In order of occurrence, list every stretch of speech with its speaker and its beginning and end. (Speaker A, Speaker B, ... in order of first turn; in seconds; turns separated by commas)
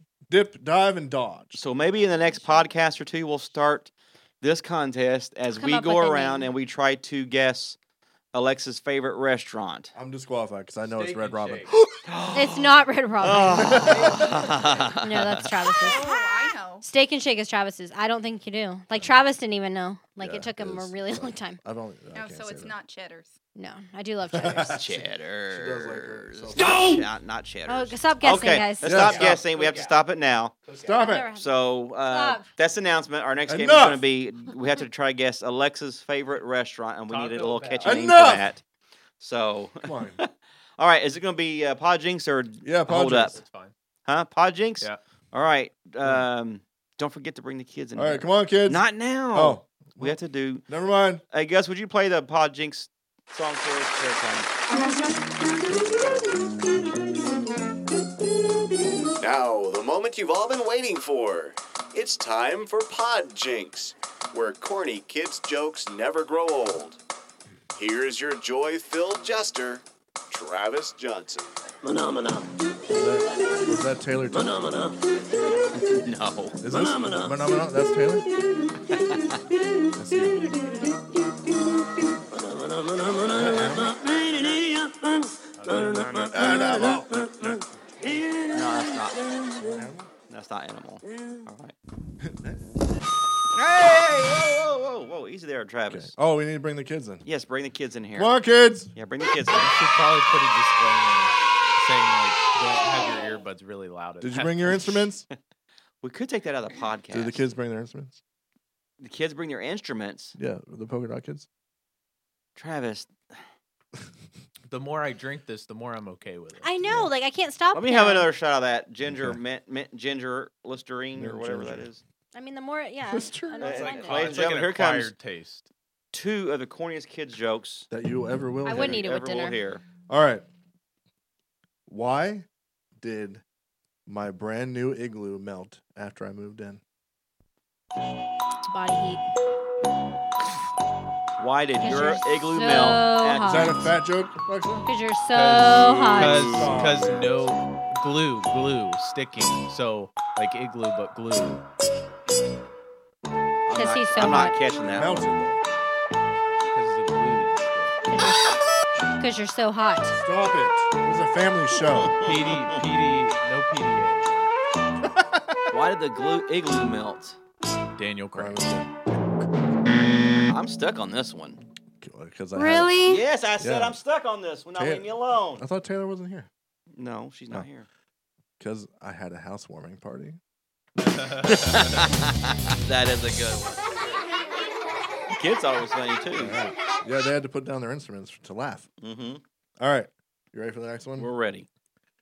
Speaker A: 0.3-1.6, Speaker B: 1.5-7.8, Speaker C: 5.5-6.5, Speaker B: 8.3-9.9, Speaker A: 9.9-11.9, Speaker D: 10.9-11.7, Speaker B: 12.1-15.5, Speaker C: 12.3-14.0, Speaker A: 13.3-14.3, Speaker D: 13.8-14.9, Speaker C: 15.0-16.2, Speaker E: 15.8-16.9, Speaker C: 16.8-21.6, Speaker A: 20.2-22.7, Speaker E: 22.1-23.3, Speaker C: 23.5-24.8, Speaker A: 24.3-27.0, Speaker B: 24.7-30.6, Speaker C: 27.7-29.0, Speaker A: 28.8-29.4, Speaker D: 28.9-30.0, Speaker D: 30.6-31.0, Speaker A: 30.8-31.3, Speaker C: 31.0-32.5, Speaker B: 31.3-38.6, Speaker A: 33.5-34.0, Speaker D: 37.1-38.2, Speaker A: 37.8-38.5, Speaker B: 39.2-43.4, Speaker A: 39.8-40.2, Speaker A: 42.6-43.4, Speaker D: 43.3-43.7, Speaker B: 44.1-50.6, Speaker A: 47.9-51.2, Speaker B: 51.3-54.5, Speaker F: 59.2-67.0, Speaker F: 67.7-71.5, Speaker A: 72.9-75.0, Speaker B: 76.0-76.6, Speaker A: 76.6-78.3, Speaker B: 79.0-79.4, Speaker A: 79.9-80.6, Speaker A: 83.2-84.0, Speaker D: 85.5-86.3, Speaker B: 85.8-87.0, Speaker A: 86.2-87.6, Speaker B: 88.5-89.8, Speaker A: 89.6-90.1, Speaker B: 90.3-91.7, Speaker A: 92.2-92.6, Speaker B: 93.5-96.1, Speaker A: 95.9-97.2, Speaker B: 97.2-98.3, Speaker A: 98.1-98.9, Speaker B: 98.9-99.7, Speaker D: 99.5-105.0, Speaker A: 104.2-105.2, Speaker B: 106.0-107.4, Speaker A: 107.1-108.2, Speaker B: 109.0-110.3, Speaker A: 110.3-111.5, Speaker B: 112.5-113.3, Speaker D: 114.7-116.7, Speaker C: 116.6-118.3, Speaker B: 117.7-122.0, Speaker A: 119.1-119.4, Speaker A: 121.1-121.9, Speaker C: 122.3-124.3, Speaker A: 123.1-123.8, Speaker B: 123.6-125.1, Speaker D: 123.6-125.7, Speaker B: 126.1-127.9, Speaker A: 127.9-129.1, Speaker C: 128.6-129.6, Speaker B: 128.7-129.8, Speaker A: 130.1-130.4, Speaker A: 131.9-132.4, Speaker A: 133.0-133.4, Speaker A: 134.1-136.8, Speaker C: 138.7-139.2, Speaker B: 141.4-143.9, Speaker C: 141.8-143.8, Speaker A: 143.4-144.9, Speaker C: 144.8-146.6, Speaker D: 145.3-151.6, Speaker A: 145.8-147.6, Speaker B: 146.2-146.8, Speaker B: 153.7-155.3, Speaker C: 153.7-154.6, Speaker A: 154.8-155.6, Speaker D: 156.7-157.9, Speaker C: 158.1-158.6, Speaker C: 159.2-160.2, Speaker A: 160.1-162.1, Speaker B: 162.0-162.8, Speaker D: 162.2-164.5, Speaker A: 165.0-165.6, Speaker B: 165.7-167.4, Speaker D: 168.0-168.6, Speaker A: 168.3-169.7, Speaker B: 170.5-171.6, Speaker A: 172.0-173.1, Speaker C: 172.5-173.2, Speaker B: 173.0-175.6, Speaker A: 173.6-174.0, Speaker A: 174.7-176.5, Speaker B: 176.9-177.9, Speaker A: 178.6-180.4, Speaker D: 181.0-182.0, Speaker B: 181.4-184.0, Speaker B: 185.3-186.6, Speaker A: 186.3-188.9, Speaker B: 189.0-189.4, Speaker A: 189.8-191.3, Speaker B: 191.2-191.7